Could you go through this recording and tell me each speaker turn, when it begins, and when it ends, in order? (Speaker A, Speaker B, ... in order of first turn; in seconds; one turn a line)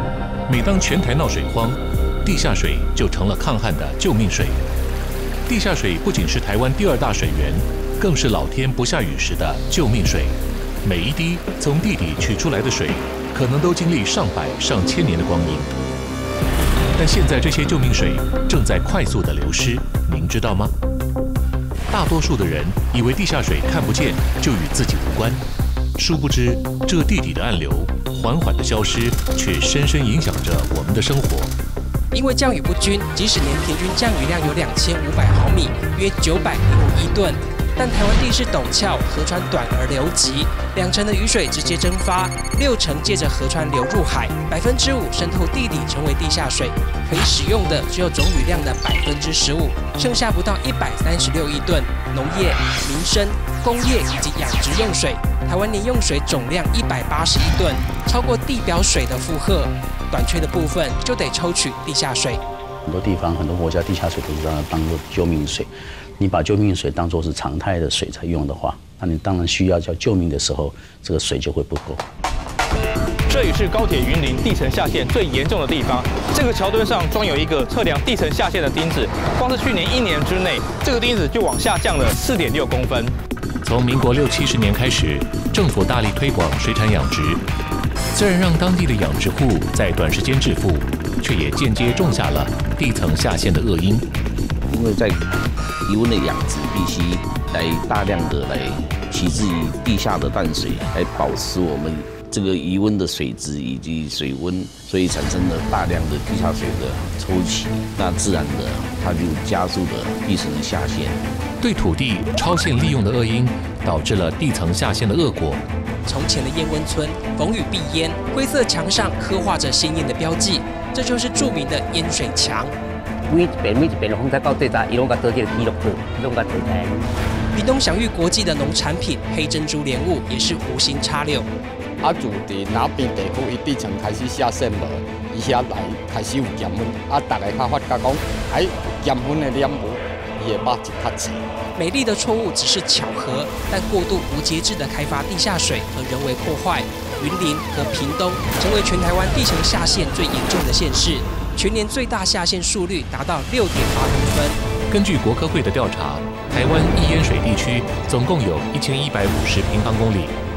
Speaker A: 0.5-4.6
Speaker A: 5.5-15.7
Speaker A: 17.0-20.7
Speaker A: 21.9-25.4
Speaker A: 26.0-31.5
Speaker B: 32.1-62.4
Speaker C: 62.9-72.0
Speaker D: 73.3-83.1
Speaker A: 83.6-87.4
Speaker A: 88.1-94.0
Speaker E: 94.7-95.3
Speaker E: 95.8-111.2
Speaker A: 111.6-115.6
Speaker B: 116.0-122.7
Speaker F: 123.3-127.1
Speaker B: 127.5-131.5
Speaker G: 132.0-141.4
Speaker B: 141.7-154.6
Speaker A: 154.9-160.3